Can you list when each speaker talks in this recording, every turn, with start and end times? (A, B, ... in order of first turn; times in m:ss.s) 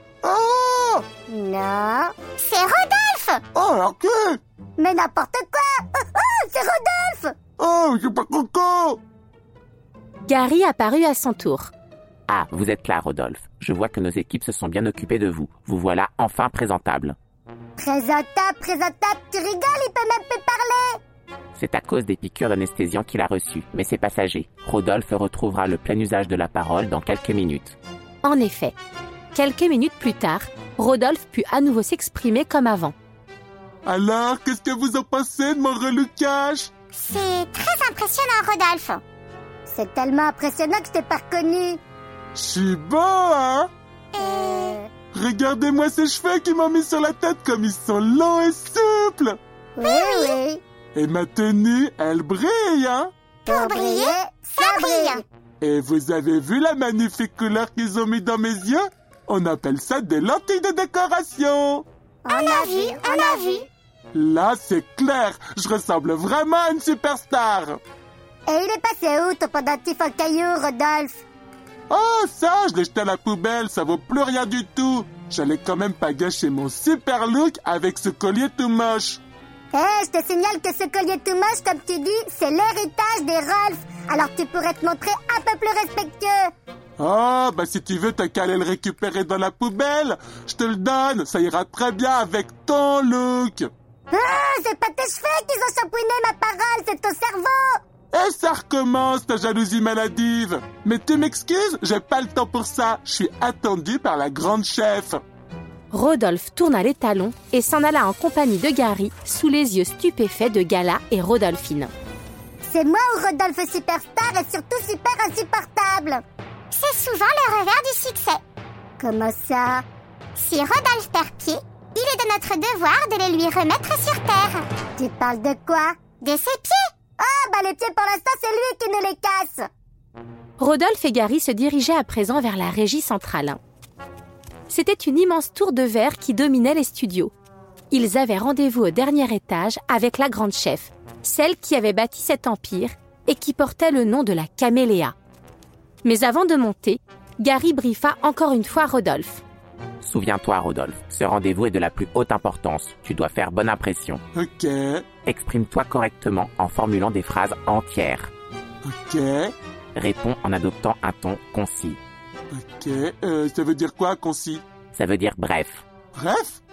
0:00.2-0:01.1 A
0:01.3-0:02.2 B
0:02.4-0:03.4 C
0:03.6-0:04.4 A
0:04.8-0:07.4 B
0:07.6-0:09.0 A
0:10.2-0:11.7 D
0:12.3-0:17.2 E
0:17.8-0:21.0 B
0:21.6-0:27.8 E
0:28.2-0:28.8 D
0:29.3-0:32.9 D
0:33.9-0:36.7 A
0:36.9-0:39.0 C
0:39.7-0:41.8 B
0:42.4-0:43.7 A
0:44.1-0:44.7 C
0:44.3-0:44.9 B
0:45.1-0:49.4 A
0:49.8-0:50.6 B
0:49.8-0:50.4 C
0:51.0-0:53.1 A
0:53.5-0:55.2 C
0:53.5-0:55.2 B
0:55.6-1:01.9 A
1:02.3-1:03.6 B
1:02.3-1:03.7 C
1:04.1-1:07.8 A
1:08.5-1:11.2 B
1:11.9-1:19.2 A
1:19.7-1:26.5 B
1:27.0-1:33.7 A
1:34.1-1:37.8 B
1:38.1-1:45.2 A
1:45.9-1:51.9 D
1:52.6-1:56.2 B
1:56.7-1:58.4 C
1:59.0-1:59.8 B
2:00.4-2:04.6 C
2:05.0-2:06.1 B
2:06.2-2:06.9 C
2:07.2-2:09.7 B
2:10.6-2:13.6 D
2:14.7-2:17.3 D
2:17.9-2:25.2 D
2:26.0-2:29.4 D
2:30.0-2:34.2 E
2:34.4-2:35.1 A
2:35.2-2:38.3 E
2:38.8-2:39.5 A
2:40.0-2:42.0 E
2:42.5-2:44.6 A
2:44.9-2:45.8 E
2:46.2-2:46.6 A